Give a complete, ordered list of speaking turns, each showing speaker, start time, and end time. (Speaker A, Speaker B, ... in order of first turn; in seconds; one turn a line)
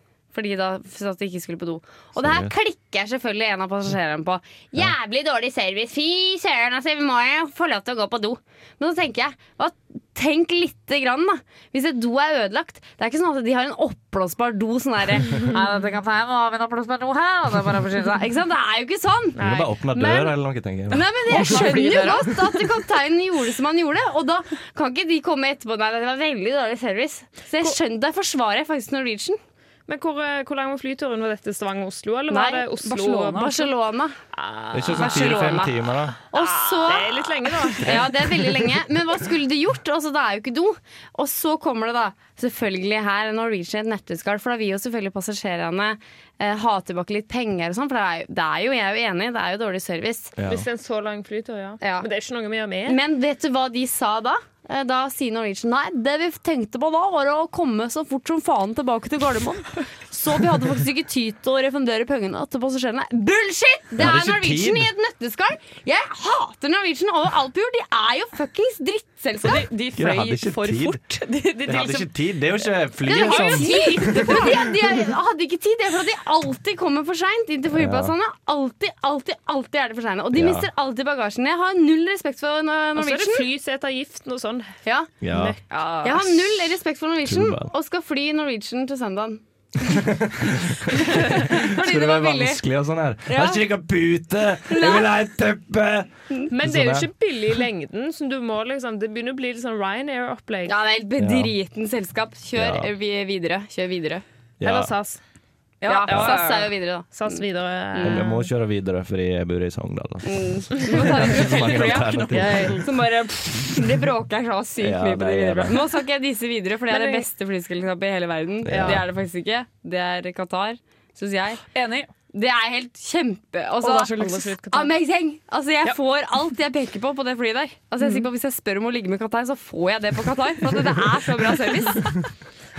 Speaker A: 0.3-20.3
Speaker B: 2.2-2.5
Speaker C: 19.4-19.8
Speaker B: 19.4-21.8
Speaker A: 20.9-29.4
Speaker D: 21.3-22.6
Speaker C: 29.9-33.6
Speaker A: 32.3-32.7
Speaker D: 32.8-33.7
Speaker A: 33.3-34.2
Speaker C: 34.3-35.7
Speaker B: 34.7-36.1
Speaker A: 34.9-50.3
Speaker C: 36.3-38.4
Speaker B: 50.4-50.7
Speaker C: 50.5-53.0
Speaker A: 51.8-52.1
Speaker A: 52.9-69.7
Speaker B: 64.0-64.9
Speaker D: 69.4-72.1
Speaker B: 70.0-71.0
Speaker B: 71.7-74.6
Speaker A: 73.0-83.5
Speaker C: 73.1-74.6
Speaker B: 77.7-78.2
Speaker B: 80.3-80.7
Speaker C: 83.0-84.8
Speaker B: 85.2-85.6
Speaker C: 85.3-86.4
Speaker D: 85.8-86.1
Speaker A: 86.0-90.0
Speaker B: 87.2-87.7
Speaker B: 89.8-97.1
Speaker A: 90.9-92.6
Speaker A: 93.3-93.7
Speaker A: 94.7-95.1
Speaker C: 96.5-100.8
Speaker A: 100.7-104.2
Speaker B: 101.2-101.5
Speaker B: 102.5-102.9
Speaker B: 104.6-104.9
Speaker C: 104.6-105.2
Speaker D: 105.8-106.7
Speaker A: 105.9-107.4
Speaker B: 106.1-106.4
Speaker C: 107.1-108.4
Speaker A: 107.9-108.4
Speaker B: 108.0-112.8
Speaker A: 110.2-121.6
Speaker D: 111.0-112.9
Speaker C: 112.3-112.8
Speaker B: 114.8-115.9
Speaker C: 116.9-117.2
Speaker B: 118.6-119.1
Speaker C: 118.7-119.0
Speaker D: 121.7-122.1
Speaker A: 122.3-132.3
Speaker D: 123.8-124.9